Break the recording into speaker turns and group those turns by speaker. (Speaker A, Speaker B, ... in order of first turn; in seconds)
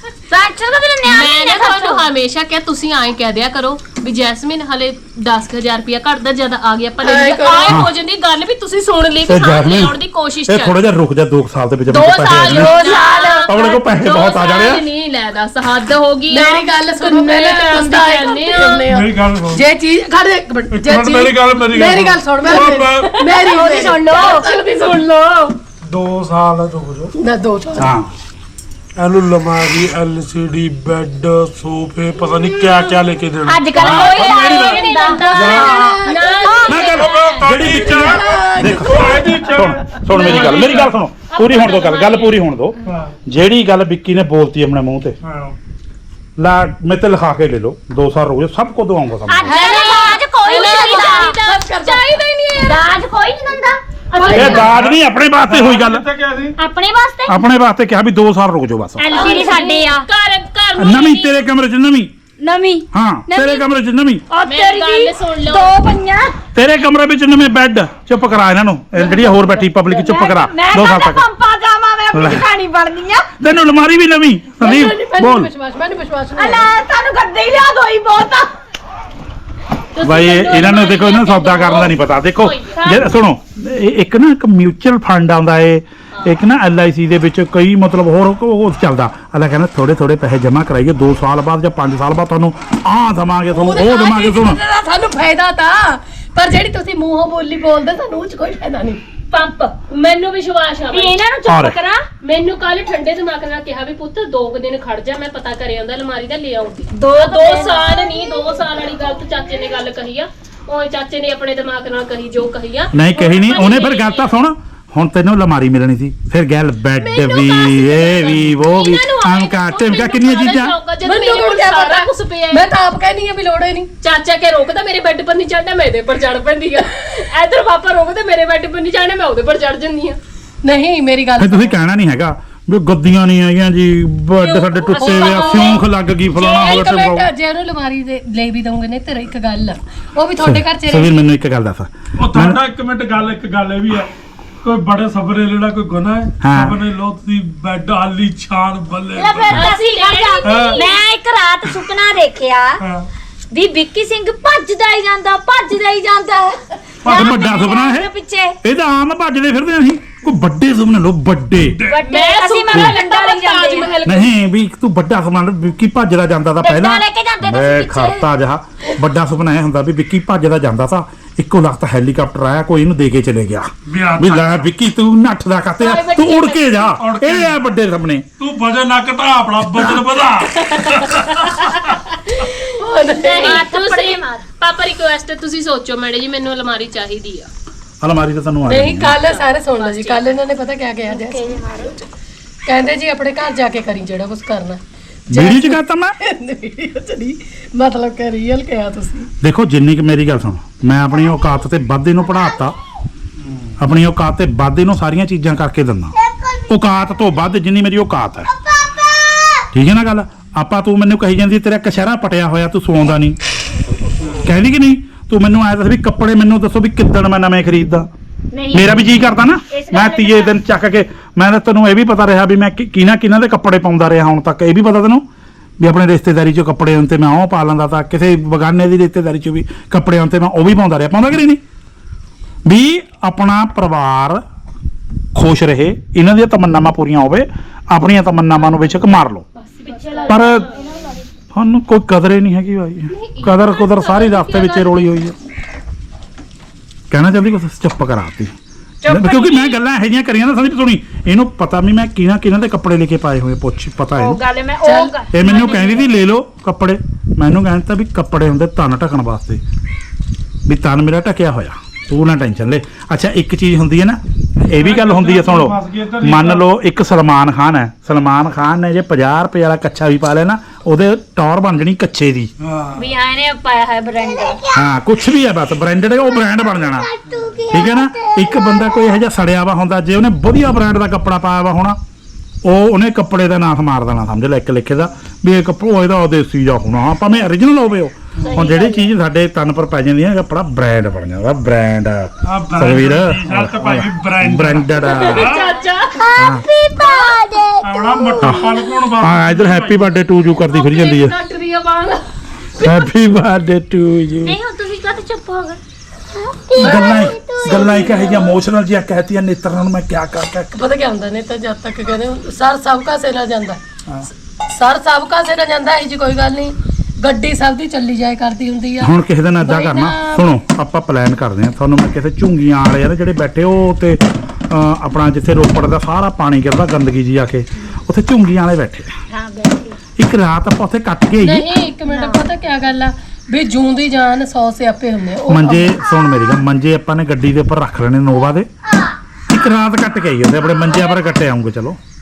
Speaker A: 0.3-2.0, 12.3-13.5, 23.3-24.4, 33.4-35.8, 36.5-36.9, 41.4-42.3, 49.3-51.4, 52.6-54.6, 56.6-57.4, 59.0-60.0, 62.4-63.7, 64.3-66.3, 69.0-73.3, 76.3-78.5, 99.3-99.7, 100.9-102.0, 106.9-107.8, 117.2-118.4, 149.1-152.8, 153.5-158.5, 161.9-163.9, 166.6-168.2, 175.8-176.9, 183.2-184.4, 191.1-191.9, 206.3-206.6, 208.9-209.4, 218.5-219.1, 219.7-220.5, 239.7-241.2, 249.0-249.8, 254.2-256.1, 272.9-274.9, 276.8-278.9, 288.4-289.1, 296.2-298.5, 304.4-305.8, 306.5-308.6, 329.3-330.0, 332.1-332.5
Speaker B: 1.0-10.8, 11.9-18.9, 24.0-25.6, 33.8-37.5, 40.2-40.8, 41.4-42.1, 49.6-52.8, 59.1-61.4, 64.4-65.8, 80.0-83.1, 86.1-86.4, 99.9-101.1, 102.2-114.3, 118.5-122.7, 124.0-130.2, 134.4-135.8, 149.5-151.0, 162.1-164.3, 183.3-187.5, 189.2-190.2, 239.8-240.7, 243.1-245.1, 295.0-296.3, 297.0-297.4
Speaker C: 7.0-7.8, 16.3-24.6, 27.2-27.9, 35.3-36.8, 37.6-39.4, 40.0-40.5, 49.4-52.5, 54.2-54.7, 59.2-59.5, 74.6-76.7, 93.5-99.0, 121.0-123.9, 130.6-131.8, 135.0-135.8, 136.3-141.1, 182.3-183.6, 188.6-191.9, 192.7-199.3, 254.8-255.1, 300.9-302.2, 306.8-307.1, 310.8-313.8, 314.7-320.4, 331.4-335.9
Speaker D: 9.3-12.8, 13.5-14.8, 27.8-28.1, 33.8-34.8, 36.7-45.1, 46.4-49.6, 54.3-56.0, 57.3-59.1, 60.8-62.1, 62.9-64.2, 66.5-71.2, 72.1-72.5, 73.4-75.5, 80.0-94.6, 101.5-101.8, 112.9-120.8, 131.4-137.3, 140.4-142.6, 146.4-146.8, 157.0-158.1, 158.6-161.8, 164.1-178.2, 188.0-189.2, 195.3-196.1, 199.4-202.8, 203.8-206.1, 206.7-208.5, 209.7-213.4, 214.3-218.1, 218.7-225.2, 225.8-231.6, 232.7-234.4, 235.3-239.4, 240.3-240.7, 241.5-245.3, 247.1-248.5, 249.1-254.4, 255.3-259.6, 260.6-272.5, 274.7-277.1, 277.7-282.0, 282.6-295.6, 296.4-296.7, 298.4-301.3, 302.8-304.6, 306.8-310.8, 319.0-329.1, 330.2-331.7, 335.5-338.7, 339.5-342.0
Speaker E: 18.9-19.6, 20.7-23.1, 25.9-27.1, 29.0-34.1, 35.3-36.1, 36.8-41.0, 42.9-43.1, 45.2-45.5, 54.5-56.5, 142.2-144.1, 144.6-149.6, 150.4-150.8, 152.8-153.1, 157.0-157.6, 161.7-162.0, 173.9-174.7, 177.0-177.6, 178.4-181.9, 264.7-266.6, 272.6-273.1, 292.4-295.7, 297.8-300.1